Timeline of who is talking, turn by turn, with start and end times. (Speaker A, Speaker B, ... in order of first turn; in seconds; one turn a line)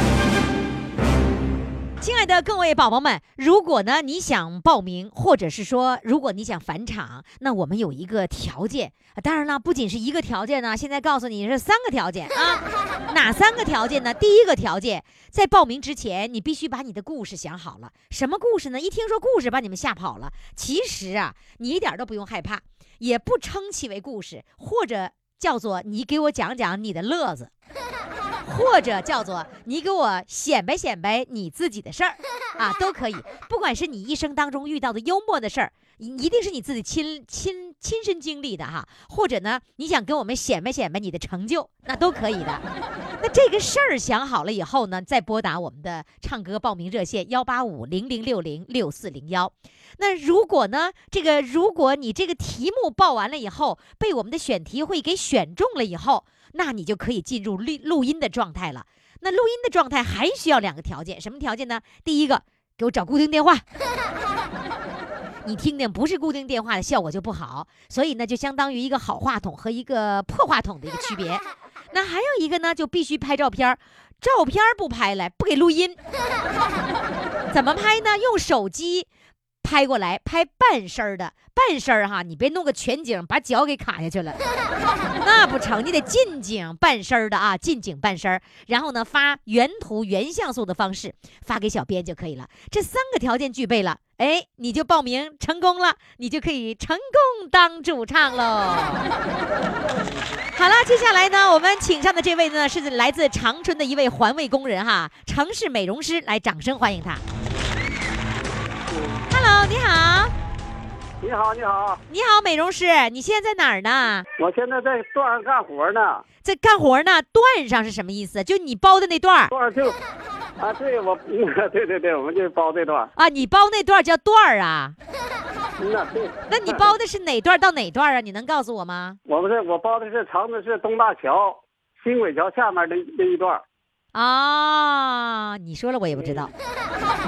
Speaker A: 2.0-27.5
Speaker A: 28.4-42.6
Speaker A: 43.2-63.6
Speaker A: 65.4-76.0
Speaker A: 77.5-79.1
Speaker A: 79.6-84.4
Speaker A: 85.2-99.1
Speaker A: 100.5-107.2
Speaker A: 109.3-110.3
Speaker B: 111.2-112.0
Speaker A: 112.1-114.2
Speaker B: 114.4-116.2
Speaker A: 116.4-119.5
Speaker B: 119.5-120.0
Speaker B: 120.6-123.1
Speaker A: 123.2-124.9
Speaker B: 125.8-126.9
Speaker A: 126.5-129.2
Speaker B: 129.2-133.6
Speaker A: 134.1-136.5
Speaker B: 136.2-136.5